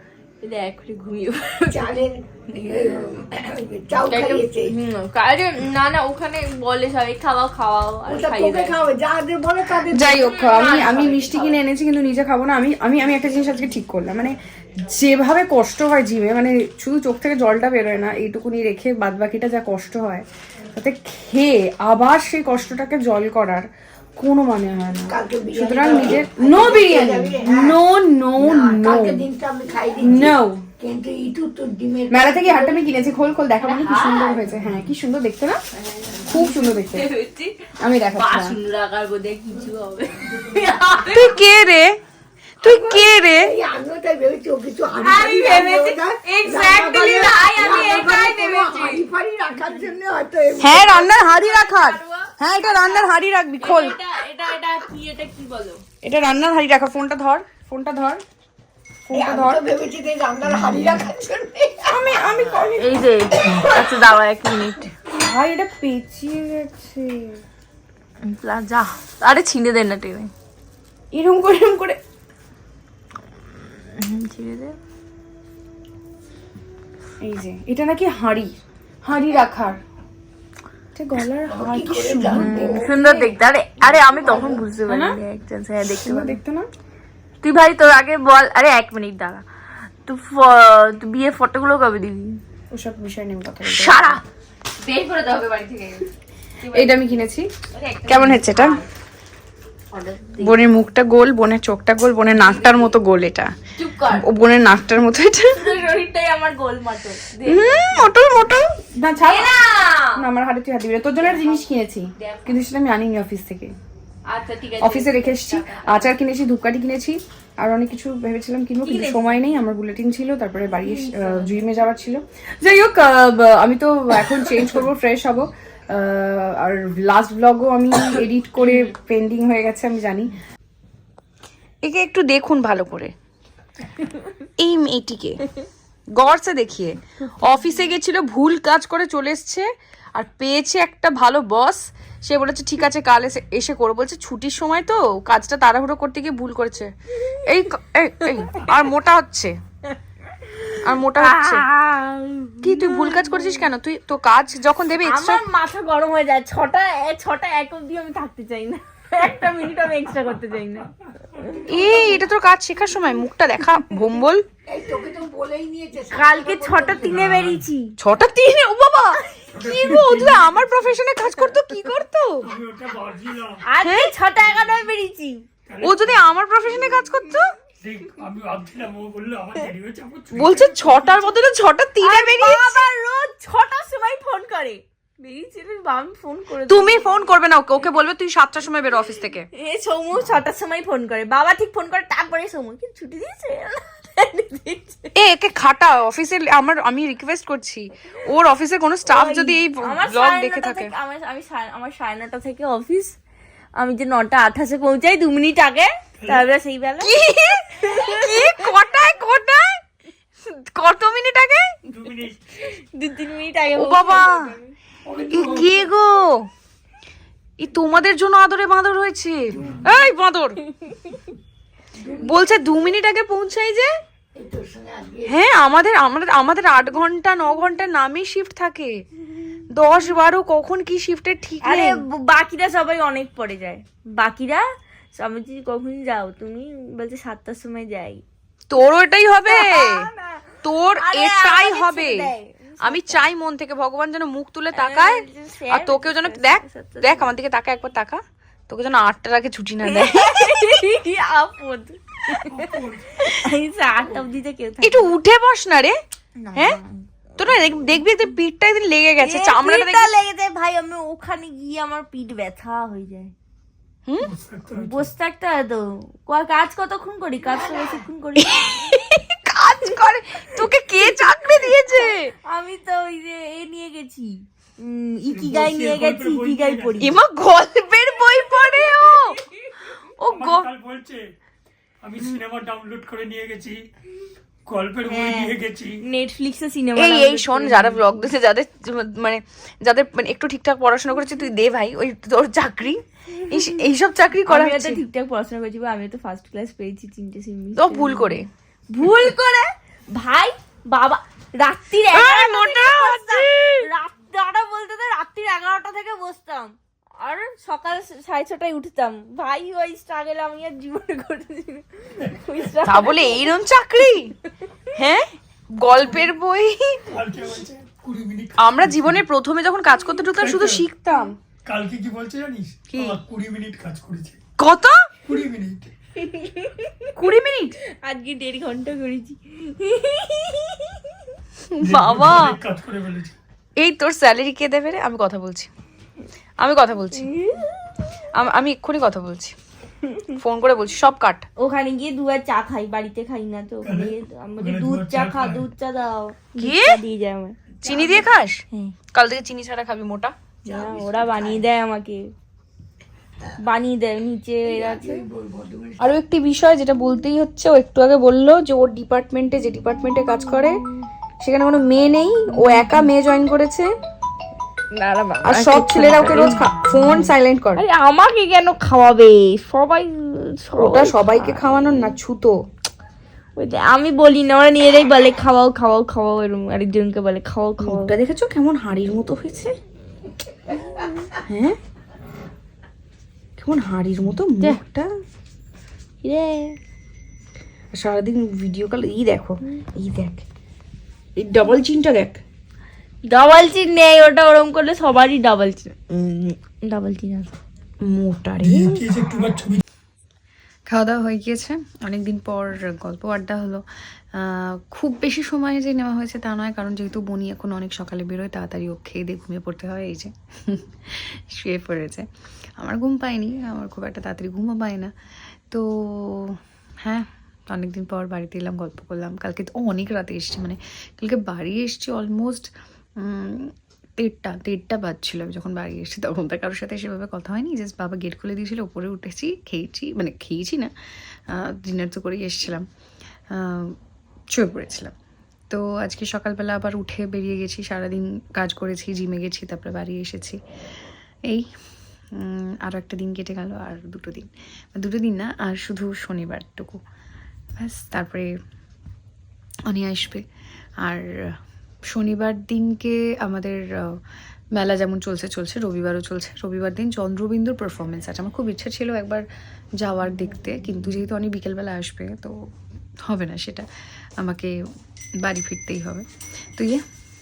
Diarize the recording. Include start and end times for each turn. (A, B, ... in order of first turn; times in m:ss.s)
0:00.4-0:01.8 A
0:01.7-0:04.7 B
0:04.1-0:08.8 A
0:08.1-0:10.2 B
0:09.9-0:23.7 C
0:10.2-0:11.6 A
0:24.2-0:29.2 C
0:25.1-0:27.8 B
0:28.4-0:32.8 B
0:30.0-0:30.6 C
0:32.1-0:35.6 C
0:33.6-0:34.4 A
0:36.0-0:37.6 A
0:36.2-0:37.1 C
0:37.8-0:38.6 C
0:38.2-0:41.4 A
0:41.1-0:42.0 C
0:42.6-0:43.5 C
0:42.6-0:51.0 B
0:45.0-0:49.0 A
0:50.6-0:54.0 C
0:50.7-0:55.8 A
0:56.0-0:58.2 C
0:59.1-0:59.6 C
0:59.1-1:02.0 B
1:01.8-1:03.0 C
1:02.8-1:04.9 A
1:05.1-1:07.4 C
1:08.2-1:10.3 A
1:11.1-1:12.0 C
1:13.8-1:14.8 A
1:17.2-1:19.8 C
1:21.0-1:23.0 C
1:21.5-1:23.2 B
1:22.4-1:26.4 A
1:24.1-1:24.6 B
1:24.9-1:25.2 C
1:26.0-1:26.7 C
1:27.4-1:29.4 A
1:30.1-1:32.4 A
1:32.7-1:34.2 C
1:33.6-1:34.2 A
1:34.8-1:36.1 A
1:36.6-1:37.2 A
1:36.7-1:37.5 C
1:37.7-1:38.9 A
1:38.1-1:38.8 C
1:39.9-1:40.6 A
1:40.4-1:43.5 C
1:42.3-1:42.9 A
1:43.8-1:44.2 A
1:44.1-1:45.5 C
1:45.6-1:48.1 A
1:47.5-1:49.6 C
1:49.2-1:50.2 A
1:50.2-1:53.7 C
1:51.2-1:52.6 A
1:54.3-1:56.1 A
1:54.8-2:10.3 C
1:58.8-1:59.3 A
2:00.8-2:01.6 A
2:08.6-2:08.9 A
2:11.8-2:13.1 C
2:14.6-2:15.4 C
2:16.2-2:26.9 C
2:27.4-2:29.5 C
2:30.6-2:33.6 A
2:30.8-2:31.6 C
2:32.6-2:35.4 C
2:35.0-2:41.6 A
2:41.7-2:44.4 C
2:41.8-2:42.1 B
2:44.7-2:47.3 B
2:46.1-2:48.0 A
2:47.0-2:47.6 D
2:48.0-2:52.5 C
2:49.5-2:50.7 D
2:52.4-2:53.7 D
2:53.6-2:55.4 A
2:53.8-2:54.1 C
2:55.7-2:56.3 D
2:55.8-2:57.5 C
2:57.8-3:01.4 D
3:00.3-3:02.9 C
3:02.0-3:07.3 A
3:06.7-3:09.5 C
3:09.5-3:15.1 A
3:15.2-3:20.9 C
3:19.1-3:23.1 A
3:23.8-3:27.2 A
3:27.0-3:29.7 C
3:27.7-3:28.6 A
3:30.5-3:31.6 C
3:31.9-3:32.4 D
3:32.6-3:34.7 A
3:33.7-3:34.4 C
3:35.1-3:35.7 D
3:35.2-3:35.9 B
3:35.3-3:36.5 C
3:37.6-3:40.6 C
3:42.0-3:42.6 B
3:42.2-3:43.9 C
3:44.4-3:45.3 B
3:45.3-3:49.0 C
3:49.7-3:52.0 C
3:51.6-3:58.2 A
3:58.7-4:00.1 C
3:59.5-4:03.3 A
4:00.6-4:10.8 C
4:04.7-4:07.3 A
4:09.8-4:12.6 A
4:12.4-4:13.2 D
4:13.2-4:15.1 A
4:14.8-4:16.0 C
4:16.4-4:17.1 A
4:17.4-4:20.1 C
4:19.2-4:23.3 A
4:24.2-4:25.1 D
4:24.7-4:29.1 A
4:28.6-4:32.3 C
4:31.9-4:37.2 A
4:35.3-4:37.2 D
4:37.0-4:39.4 C
4:38.5-4:39.9 A
4:40.2-4:40.7 C
4:40.2-4:41.3 D
4:42.0-4:43.9 D
4:44.7-4:46.0 D
4:45.1-4:48.1 A
4:47.0-4:55.0 C
4:54.5-5:13.4 A
4:57.8-4:58.5 C
5:02.1-5:03.9 C
5:12.8-5:14.3 C
5:15.0-5:17.0 C
5:17.1-5:19.2 D
5:18.6-5:21.4 C
5:20.4-5:20.9 D
5:21.6-5:24.4 D
5:22.9-5:23.2 C
5:24.6-5:25.0 C
5:25.3-5:25.9 D
5:26.2-5:27.1 A
5:27.2-5:27.8 C
5:28.0-5:31.0 A
5:31.7-5:32.6 C
5:31.8-5:33.4 D
5:33.8-5:35.7 C
5:36.6-5:37.3 C
5:37.2-5:37.6 A
5:38.4-5:39.6 C
5:40.4-5:41.5 C
5:41.6-5:47.6 A
5:43.8-5:45.6 D
5:46.6-5:47.0 C
5:47.8-5:48.3 B
5:47.8-5:50.3 C
5:50.7-5:51.6 B
5:50.7-5:52.3 A
5:53.6-5:55.2 A
5:54.7-5:56.1 B
5:56.0-6:00.8 C
6:01.4-6:03.9 C
6:04.9-6:06.6 A
6:05.4-6:07.8 C
6:07.8-6:11.6 A
6:10.8-6:12.6 C
6:13.6-6:18.1 A
6:17.8-6:19.8 C
6:21.5-6:21.8 C
6:23.6-6:25.1 C
6:26.2-6:26.8 A
6:27.9-6:30.4 C
6:31.4-6:32.4 C
6:33.3-6:37.6 A
6:38.0-6:39.3 C
6:38.6-6:39.8 D
6:40.9-6:43.8 C
6:44.4-6:52.3 C
6:52.8-6:55.1 C
6:55.7-7:10.9 C
7:11.5-7:12.9 C
7:13.5-7:14.0 C
7:14.5-7:15.1 C
7:15.7-7:20.6 C
7:22.4-7:27.0 C
7:27.8-7:28.5 C
7:29.9-7:30.4 C
7:31.0-7:31.6 C
7:32.1-7:34.2 C
7:34.8-7:39.4 C
7:40.0-7:42.6 C
7:43.2-7:43.9 C
7:44.4-7:44.8 C
7:45.4-7:47.0 C